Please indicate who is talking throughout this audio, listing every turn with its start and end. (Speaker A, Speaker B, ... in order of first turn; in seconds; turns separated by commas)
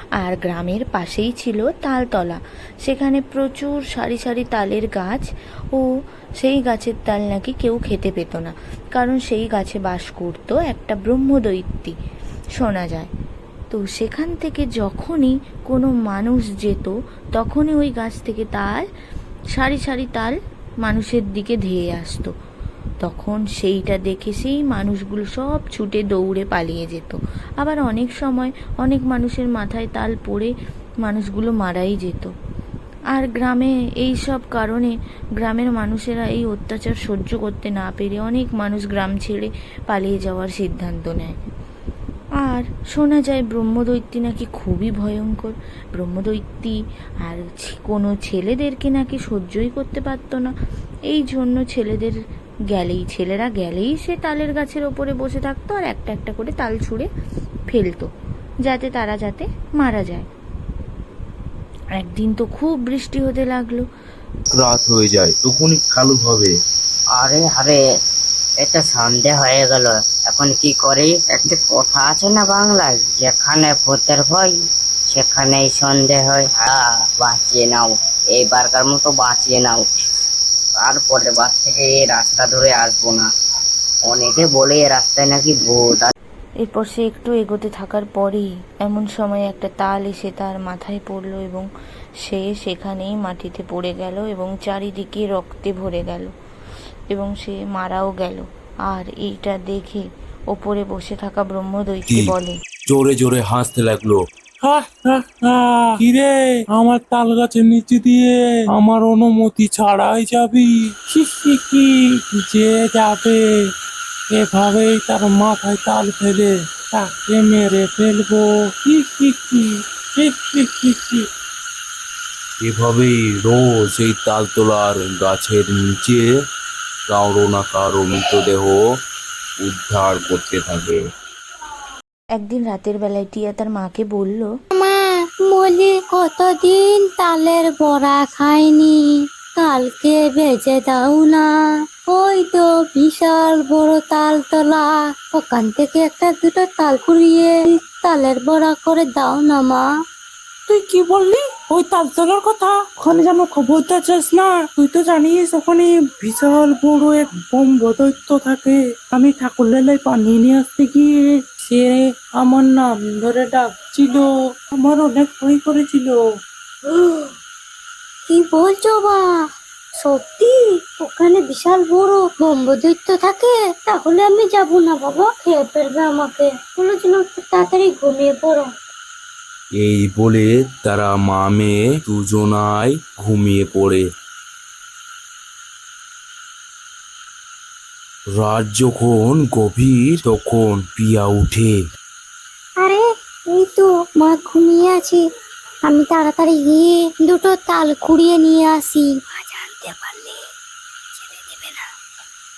Speaker A: 0.2-5.9, Speaker A: 6.4-11.9, Speaker A: 12.6-13.1, Speaker A: 13.7-18.9, Speaker A: 19.5-22.3, Speaker A: 23.0-30.5, Speaker A: 31.0-32.3, Speaker A: 33.1-41.4, Speaker A: 42.4-50.5, Speaker A: 51.1-52.2, Speaker A: 52.7-57.1, Speaker A: 57.7-58.1, Speaker A: 58.6-60.3, Speaker A: 62.0-63.9, Speaker B: 64.5-66.5, Speaker C: 67.2-67.8, Speaker C: 68.6-74.5, Speaker C: 75.1-79.8, Speaker C: 80.8-83.3, Speaker C: 84.1-86.1, Speaker A: 86.6-91.7, Speaker A: 92.2-96.3, Speaker A: 97.1-102.6, Speaker B: 102.9-104.2, Speaker D: 104.6-113.4, Speaker D: 114.3-121.2, Speaker B: 122.6-126.3, Speaker B: 127.1-128.8, Speaker B: 129.6-131.0, Speaker A: 132.4-134.5, Speaker E: 134.7-138.9, Speaker E: 139.6-141.4, Speaker E: 142.1-149.8, Speaker D: 150.7-166.2, Speaker E: 166.9-167.3, Speaker E: 168.3-169.2, Speaker E: 170.0-178.7, Speaker B: 179.8-184.0, Speaker B: 188.4-191.8, Speaker E: 192.8-195.2, Speaker E: 195.9-200.3, Speaker E: 201.2-201.8